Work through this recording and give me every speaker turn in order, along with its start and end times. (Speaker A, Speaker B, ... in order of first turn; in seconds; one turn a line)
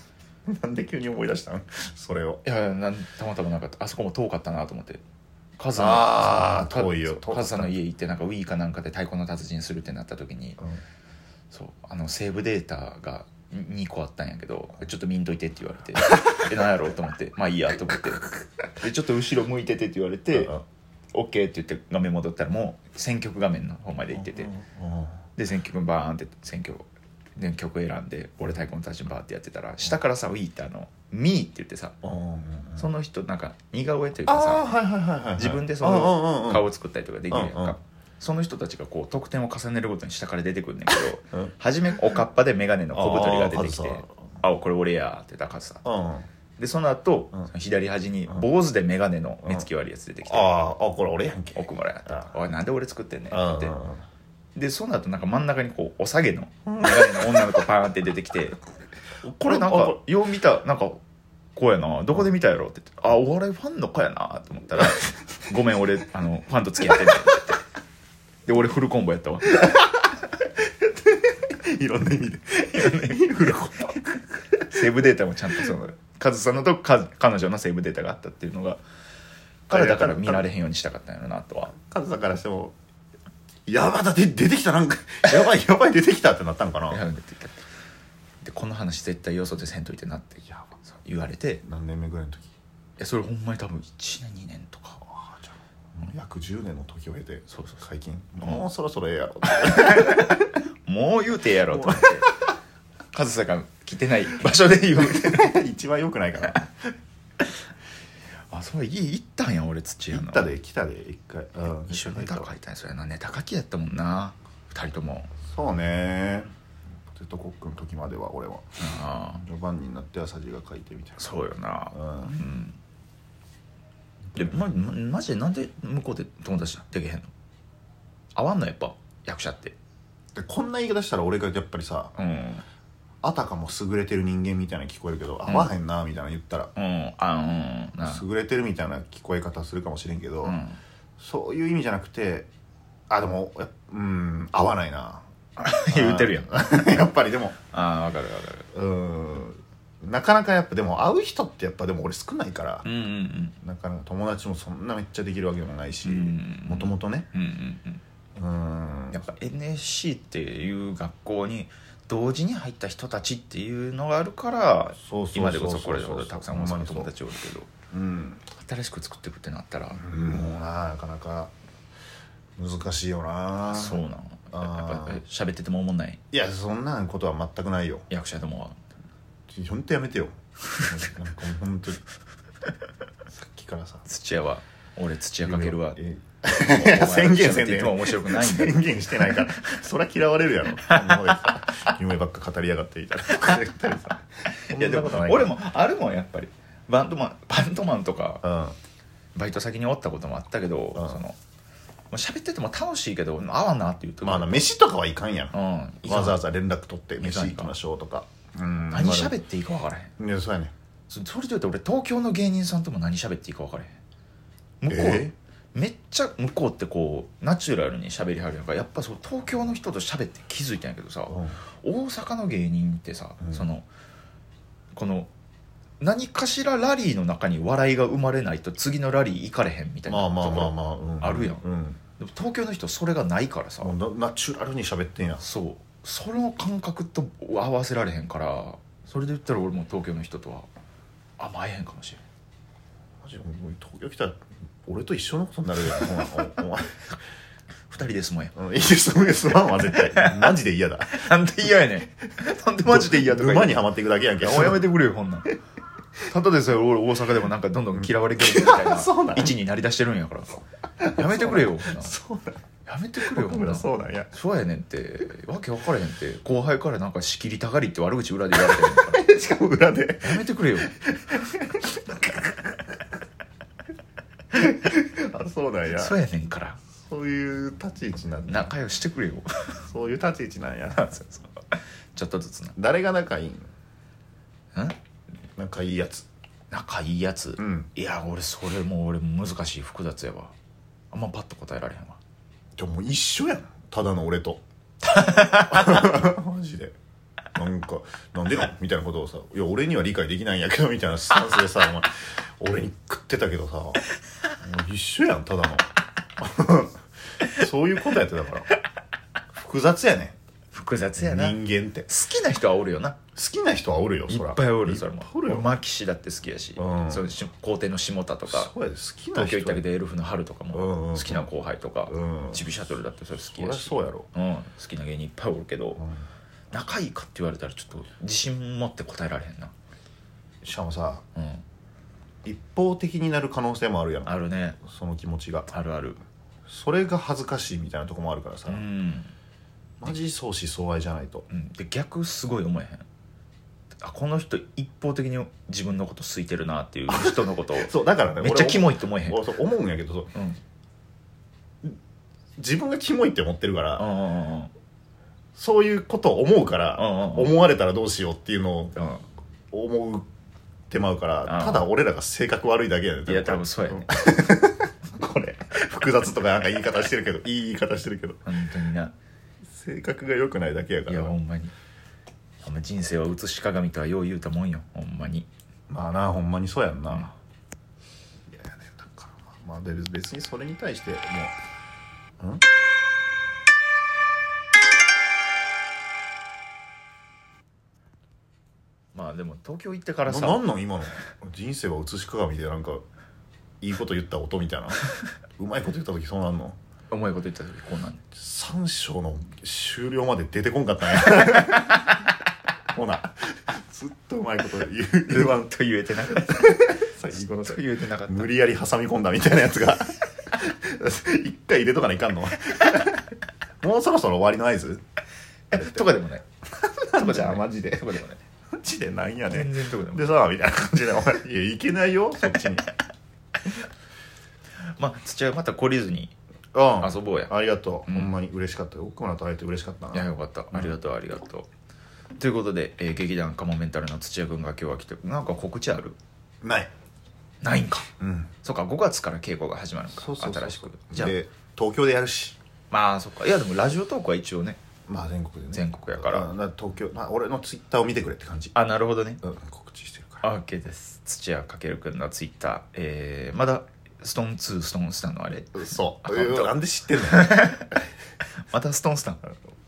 Speaker A: 0.5-2.4
Speaker B: 2.4-5.0
Speaker B: 5.6-10.6
Speaker A: 5.8-7.8
Speaker B: 11.5-20.5
Speaker A: 20.3-20.6
Speaker B: 21.1-24.5
Speaker A: 24.2-25.2
Speaker B: 25.4-32.0
Speaker A: 32.0-32.9
Speaker B: 32.8-34.7
Speaker A: 34.3-36.7
Speaker B: 35.4-45.8
Speaker A: 37.3-37.8
Speaker A: 42.9-44.4
Speaker A: 45.8-46.3
Speaker B: 46.6-50.5
Speaker A: 50.2-52.3
Speaker B: 51.5-53.7
Speaker A: 53.3-54.0
Speaker B: 54.5-58.6
Speaker A: 56.7-57.6
Speaker A: 59.2-60.0
Speaker B: 59.3-61.0
Speaker B: 61.6-67.6
Speaker B: 68.5-69.8
Speaker A: 70.6-74.6
Speaker B: 72.7-73.6
Speaker B: 74.7-78.8
Speaker B: 79.7-81.7
Speaker A: 79.7-80.5
Speaker A: 81.7-82.8
Speaker A: 83.7-87.0
Speaker B: 86.9-87.6
Speaker B: 88.4-91.6
Speaker A: 91.6-92.5
Speaker B: 93.0-95.0
Speaker A: 95.1-100.6
Speaker B: 97.5-97.8
Speaker B: 99.5-102.3
Speaker A: 101.7-102.5
Speaker B: 103.1-105.5
Speaker A: 105.0-106.9
Speaker B: 108.5-110.5
Speaker A: 110.1-112.5
Speaker B: 111.8-115.3
Speaker A: 115.5-116.5
Speaker A: 117.1-121.2
Speaker B: 118.8-119.4
Speaker B: 121.2-122.8
Speaker A: 121.9-122.5
Speaker B: 124.3-127.3
Speaker B: 128.3-129.8
Speaker A: 130.3-132.2
Speaker B: 132.2-132.6
Speaker A: 133.2-136.7
Speaker B: 135.5-135.7
Speaker B: 136.8-138.2
Speaker A: 138.0-140.6
Speaker B: 140.4-140.8
Speaker A: 141.2-142.5
Speaker A: 143.1-145.2
Speaker B: 145.6-146.6
Speaker A: 145.8-147.6
Speaker B: 147.7-148.7
Speaker A: 148.7-152.9
Speaker B: 152.8-153.6
Speaker A: 153.6-157.3
Speaker B: 156.0-158.0
Speaker A: 158.4-159.3
Speaker B: 159.1-167.7
Speaker A: 165.0-167.1
Speaker A: 167.9-168.4
Speaker B: 168.5-170.0
Speaker A: 169.9-171.5
Speaker A: 172.6-175.2
Speaker B: 173.7-176.2
Speaker A: 176.3-178.1
Speaker B: 178.1-178.8
Speaker A: 179.5-182.0
Speaker A: 183.3-184.1
Speaker B: 184.1-189.5
Speaker A: 185.4-195.6
Speaker B: 190.8-191.6
Speaker B: 194.7-198.4
Speaker A: 198.4-198.8
Speaker B: 199.3-201.4
Speaker A: 201.0-201.2
Speaker B: 202.1-204.7
Speaker A: 204.2-209.3
Speaker B: 205.5-206.4
Speaker B: 207.2-207.7
Speaker B: 208.9-210.1
Speaker A: 210.2-210.7
Speaker B: 211.1-214.0
Speaker B: 214.8-223.9
Speaker A: 214.9-215.3
Speaker A: 221.3-221.6
Speaker B: 224.9-225.3
Speaker B: 226.0-231.6
Speaker A: 230.1-232.0
Speaker B: 232.2-234.0
Speaker A: 233.8-235.4
Speaker B: 235.4-240.7
Speaker B: 241.4-242.2
Speaker A: 243.2-247.0
Speaker B: 247.9-248.5
Speaker A: 248.6-251.3
Speaker B: 249.9-250.6
Speaker B: 251.1-253.8
Speaker A: 252.9-254.8
Speaker B: 254.4-255.5
Speaker B: 256.3-260.6
Speaker A: 258.0-259.6
Speaker A: 261.0-262.6
Speaker B: 261.1-262.1
Speaker B: 262.9-269.2
Speaker A: 263.2-264.3
Speaker A: 268.6-272.8
Speaker B: 270.2-270.9
Speaker A: 274.5-276.2
Speaker B: 275.9-276.8
Speaker A: 277.0-278.7
Speaker B: 278.5-279.9
Speaker A: 279.9-281.4
Speaker B: 281.0-281.4
Speaker B: 282.1-282.8
Speaker A: 282.8-283.7
Speaker A: 285.6-286.3
Speaker B: 286.7-290.5
Speaker A: 287.6-287.9
Speaker B: 291.1-292.2
Speaker A: 292.8-296.9
Speaker B: 295.1-296.1
Speaker A: 297.6-304.0
Speaker A: 304.6-308.8
Speaker A: 309.5-310.4
Speaker B: 310.7-313.2
Speaker A: 311.2-312.1
Speaker A: 313.4-315.7
Speaker B: 314.3-318.7
Speaker A: 316.8-317.3
Speaker A: 318.5-319.9
Speaker B: 319.3-326.0
Speaker A: 320.7-321.5
Speaker A: 322.1-322.7
Speaker A: 323.4-324.3
Speaker A: 326.0-326.2
Speaker B: 326.7-329.7
Speaker A: 330.6-331.2
Speaker B: 331.4-331.6
Speaker A: 332.4-335.7
Speaker B: 334.2-334.8
Speaker B: 335.7-336.2
Speaker A: 336.7-338.8
Speaker B: 338.7-339.3
Speaker A: 340.0-341.5
Speaker B: 341.5-343.1
Speaker B: 344.0-349.5
Speaker A: 347.1-350.3
Speaker B: 350.3-350.6
Speaker A: 352.6-354.1
Speaker B: 354.0-354.7
Speaker A: 355.6-359.0
Speaker B: 357.0-357.6
Speaker B: 359.0-359.2
Speaker A: 359.7-360.2
Speaker A: 360.9-368.4
Speaker B: 361.5-361.9
Speaker B: 363.3-364.1
Speaker B: 368.4-369.1
Speaker A: 369.7-371.4
Speaker B: 371.1-371.7
Speaker B: 372.6-375.5
Speaker A: 375.9-377.3
Speaker A: 378.5-381.6
Speaker B: 389.1-390.6
Speaker A: 390.3-393.0
Speaker A: 393.8-395.1
Speaker A: 395.6-396.8
Speaker B: 397.1-398.2
Speaker A: 398.3-402.2
Speaker B: 401.5-402.0
Speaker A: 402.9-413.3
Speaker B: 405.3-408.6
Speaker A: 413.8-415.0
Speaker B: 415.7-416.4
Speaker A: 415.7-416.1
Speaker A: 416.8-418.2
Speaker B: 417.1-418.4
Speaker A: 418.7-422.9
Speaker B: 419.5-420.3
Speaker B: 424.8-426.3
Speaker A: 426.7-430.9
Speaker B: 427.0-427.5
Speaker B: 430.1-431.7
Speaker B: 432.4-436.2
Speaker A: 436.6-436.9
Speaker B: 437.6-438.1
Speaker A: 438.2-438.5
Speaker B: 438.6-441.4
Speaker A: 440.1-442.6
Speaker B: 442.9-444.8
Speaker A: 445.1-448.8
Speaker B: 445.7-446.5
Speaker B: 448.7-449.4
Speaker A: 449.4-450.5
Speaker B: 450.4-457.9
Speaker A: 455.7-457.8
Speaker B: 458.7-459.4